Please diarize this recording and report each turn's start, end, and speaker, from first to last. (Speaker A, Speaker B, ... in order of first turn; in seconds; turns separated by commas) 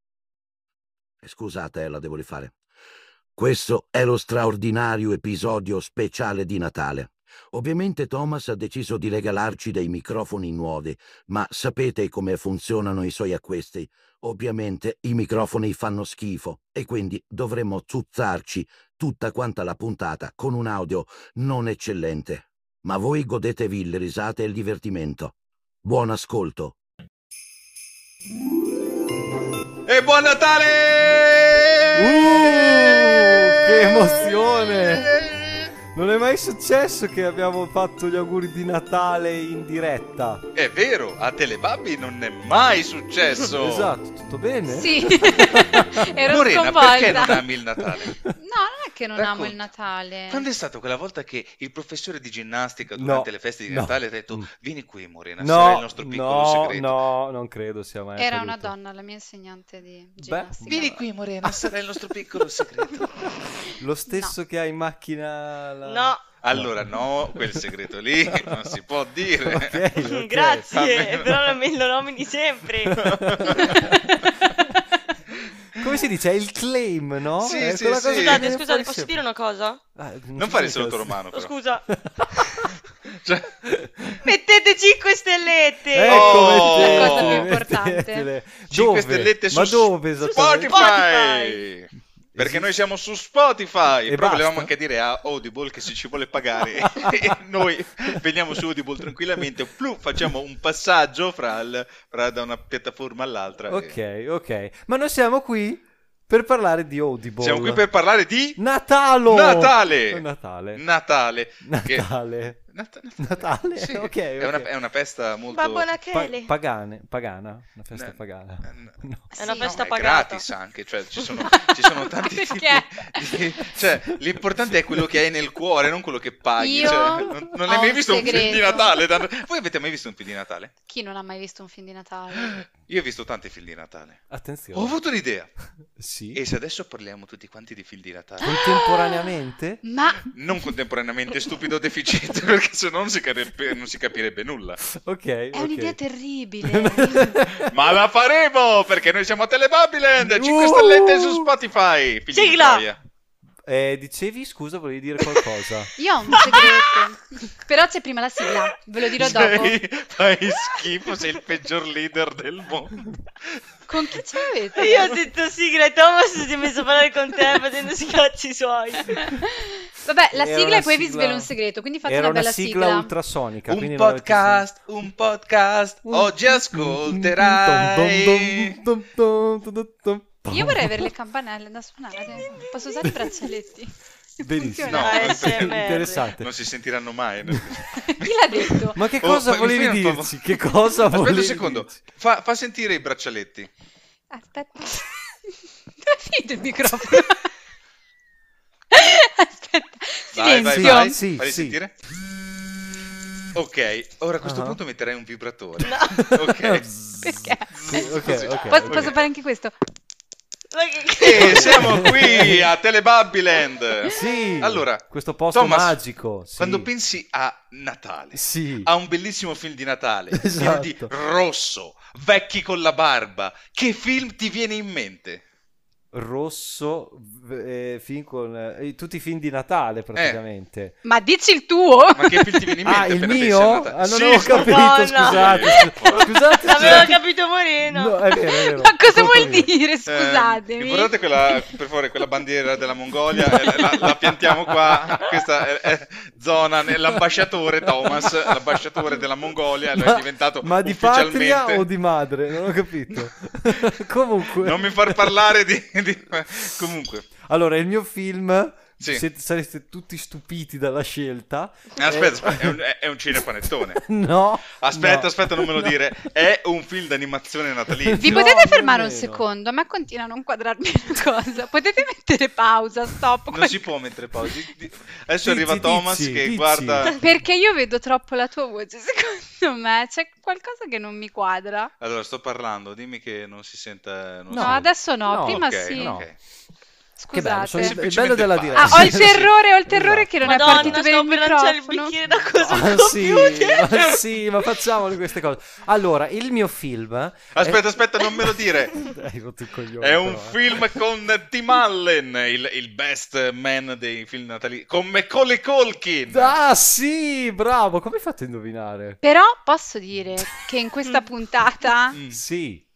Speaker A: 1.2-2.5, Speaker A: 3.4-26.8, Speaker B: 29.9-34.0, Speaker C: 31.9-35.1, Speaker B: 34.7-35.6, Speaker C: 35.9-40.4, Speaker B: 40.5-43.9, Speaker C: 43.4-47.4, Speaker D: 44.7-47.5, Speaker B: 46.1-48.2, Speaker C: 48.0-48.3, Speaker D: 48.3-50.4, Speaker B: 49.1-49.6, Speaker B: 50.3-57.0, Speaker C: 53.0-54.5, Speaker C: 55.4-58.7, Speaker D: 58.2-60.8, Speaker C: 60.2-61.7, Speaker B: 60.6-63.3, Speaker C: 62.5-67.6, Speaker D: 64.1-64.3, Speaker E: 65.8-66.2, Speaker B: 66.4-69.8, Speaker C: 68.3-68.8, Speaker C: 69.4-70.8, Speaker E: 70.0-73.8, Speaker B: 70.7-71.3, Speaker B: 72.9-73.9, Speaker C: 73.0-74.8, Speaker C: 75.8-79.2, Speaker B: 77.4-78.6, Speaker E: 77.4-79.8, Speaker C: 80.0-81.2, Speaker B: 80.4-81.5, Speaker E: 81.3-82.7, Speaker C: 81.9-82.7, Speaker B: 83.1-83.5, Speaker C: 83.7-84.2, Speaker E: 84.2-86.7, Speaker C: 85.9-90.9, Speaker B: 86.1-87.6, Speaker D: 86.7-88.3, Speaker B: 88.7-103.9, Speaker E: 90.3-91.6, Speaker C: 92.3-92.7, Speaker C: 94.1-94.7, Speaker C: 96.8-97.3, Speaker C: 103.6-107.8, Speaker B: 107.4-108.6, Speaker C: 108.6-110.8, Speaker B: 109.2-115.9, Speaker C: 111.6-112.6, Speaker C: 113.2-114.7, Speaker E: 115.5-116.5, Speaker C: 116.1-119.3, Speaker B: 117.9-118.9, Speaker D: 119.3-119.7, Speaker E: 119.3-120.5, Speaker B: 119.6-130.7, Speaker D: 121.4-123.4, Speaker D: 126.6-128.9, Speaker C: 126.8-127.3, Speaker C: 128.3-128.5, Speaker D: 130.9-132.6, Speaker B: 132.3-135.5, Speaker C: 134.3-134.9, Speaker C: 135.9-136.4, Speaker B: 136.3-138.5, Speaker D: 138.4-139.3, Speaker C: 138.4-139.8, Speaker D: 139.8-140.2, Speaker B: 140.3-144.8, Speaker C: 144.9-146.0, Speaker D: 145.5-147.4, Speaker C: 146.6-147.8, Speaker B: 147.6-153.0, Speaker C: 150.2-151.5, Speaker E: 152.3-152.8, Speaker C: 153.6-156.6, Speaker D: 156.0-159.8, Speaker B: 156.4-157.1, Speaker B: 159.2-163.2, Speaker D: 163.9-165.2, Speaker E: 164.8-169.2, Speaker D: 169.1-173.1, Speaker C: 170.3-171.5, Speaker C: 172.0-174.7, Speaker B: 173.7-178.8, Speaker C: 176.1-181.1, Speaker D: 180.5-185.4, Speaker C: 183.0-183.3, Speaker C: 184.4-186.5, Speaker B: 184.8-193.7, Speaker E: 184.9-186.3, Speaker C: 187.5-187.8, Speaker D: 188.1-189.0, Speaker C: 188.9-191.9, Speaker D: 194.3-195.5, Speaker D: 196.0-197.5, Speaker D: 198.9-201.2, Speaker B: 200.3-201.9, Speaker C: 200.7-201.8, Speaker B: 203.5-206.9, Speaker C: 204.4-204.8, Speaker E: 205.8-206.4, Speaker C: 206.1-209.1, Speaker D: 207.2-209.7, Speaker B: 207.7-209.2, Speaker E: 210.7-212.1, Speaker B: 211.2-216.0, Speaker C: 211.4-212.7, Speaker C: 214.0-216.9, Speaker B: 216.6-225.4, Speaker C: 218.3-218.9, Speaker C: 220.3-221.1, Speaker C: 226.1-230.9, Speaker B: 230.1-230.4, Speaker D: 231.0-232.7, Speaker B: 232.1-237.1, Speaker C: 232.8-237.2, Speaker E: 234.3-238.2, Speaker C: 237.9-239.7, Speaker D: 238.7-241.7, Speaker B: 240.1-251.8, Speaker C: 243.3-245.4, Speaker C: 247.9-249.2, Speaker C: 249.9-255.3, Speaker B: 254.5-257.3, Speaker C: 256.5-256.8, Speaker C: 257.4-262.8, Speaker B: 262.0-264.0, Speaker C: 263.3-266.0, Speaker B: 264.7-268.5, Speaker C: 267.9-269.4, Speaker D: 268.2-273.9, Speaker B: 273.5-277.2, Speaker C: 275.4-277.1, Speaker D: 277.1-281.9, Speaker B: 282.0-286.4, Speaker C: 284.5-286.3, Speaker D: 284.6-286.2, Speaker D: 287.2-288.0, Speaker C: 287.3-291.0, Speaker B: 287.6-289.5, Speaker D: 288.7-292.1, Speaker E: 290.4-294.2, Speaker C: 292.7-300.9, Speaker B: 297.5-299.1, Speaker B: 300.0-306.6, Speaker C: 306.3-309.2, Speaker D: 309.2-312.2, Speaker B: 312.1-312.4, Speaker C: 312.3-312.8